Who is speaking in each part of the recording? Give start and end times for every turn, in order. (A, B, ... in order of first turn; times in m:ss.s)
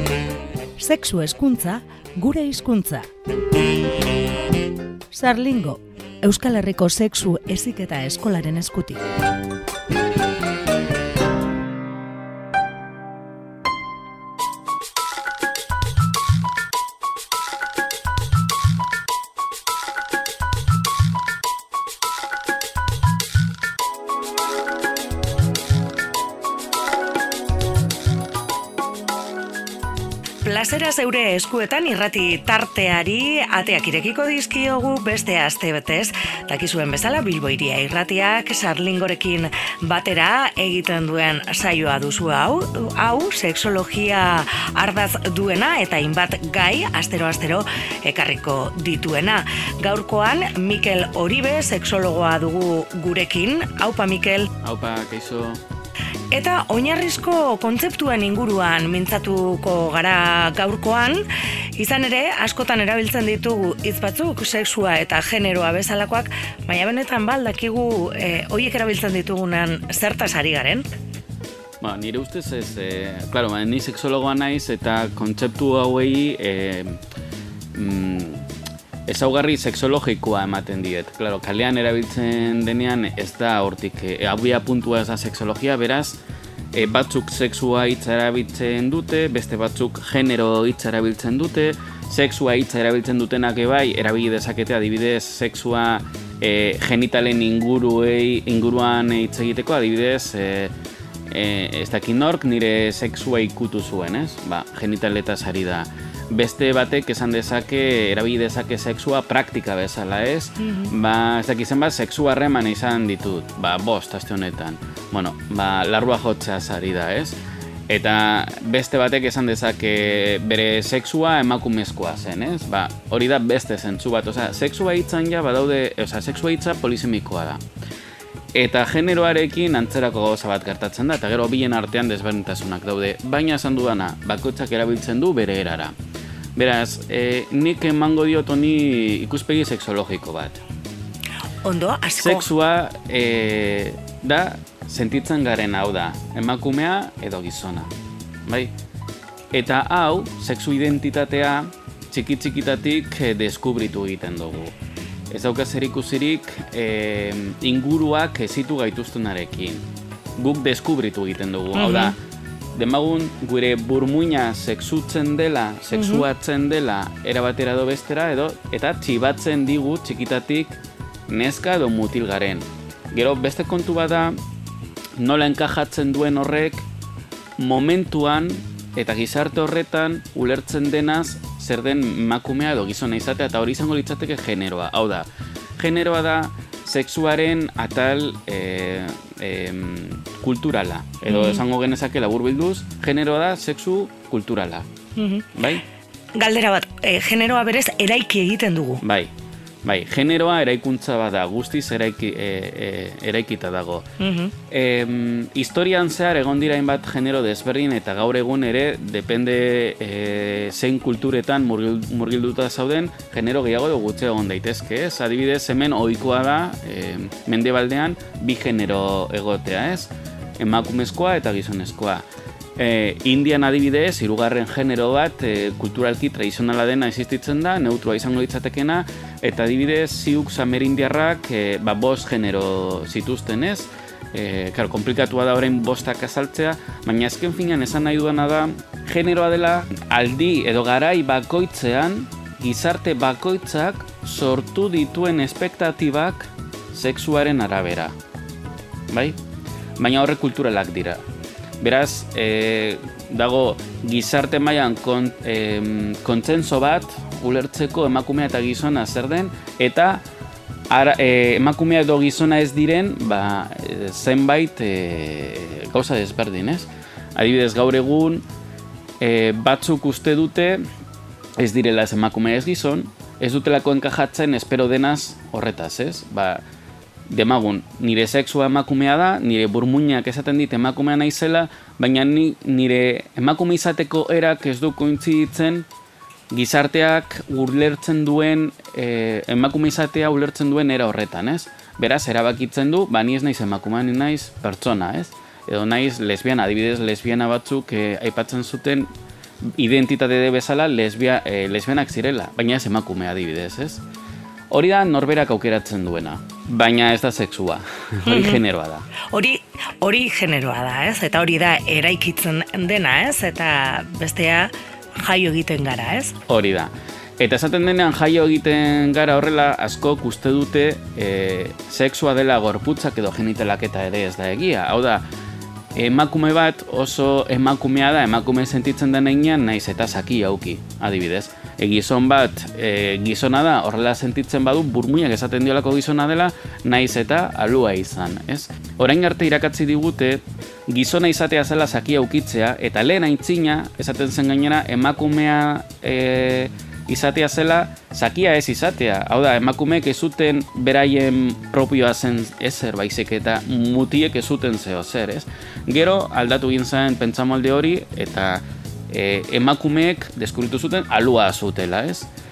0:00.8-0:03.1 A
0:05.1-0:09.0 A
0:30.4-0:54.5 A
0:54.6-0:55.6 B
0:56.3-1:01.2 A
1:01.7-1:10.9 A
1:11.8-1:17.0 B
1:17.7-1:18.4 B
1:19.1-1:26.2 B
1:26.7-1:40.7 B
1:41.3-1:57.4 B
1:50.6-1:50.9 A
1:57.9-2:07.6 B
2:08.6-2:15.9 B
2:16.6-2:20.6 B
2:21.6-2:22.5 A
2:22.2-2:27.9 B
2:28.4-2:28.7 B
2:29.5-2:34.8 B
2:35.3-2:39.8 B
2:40.4-2:42.2 B
2:41.7-2:42.2 A
2:42.8-2:54.4 B
2:45.9-2:46.2 A
2:55.2-2:56.9 B
2:57.6-3:14.9 B
3:11.3-3:11.6 A
3:15.2-3:15.5 A
3:15.6-3:15.8 B
3:16.4-3:19.0 A
3:19.0-3:19.3 B
3:19.8-3:24.1 B
3:24.2-3:24.5 A
3:24.7-3:42.2 B
3:42.8-4:08.2 B
4:09.1-4:09.4 B
4:10.0-4:11.2 B
4:11.8-4:20.2 B
4:20.9-4:28.4 B
4:29.2-4:30.8 B
4:31.6-4:36.6 B
4:37.3-4:45.9 B
4:46.5-4:59.1 B
4:59.6-5:04.0 B
5:04.7-5:09.1 B
5:08.2-5:08.6 A
5:09.3-5:16.3 A
5:16.5-5:25.2 B
5:25.9-6:02.3 B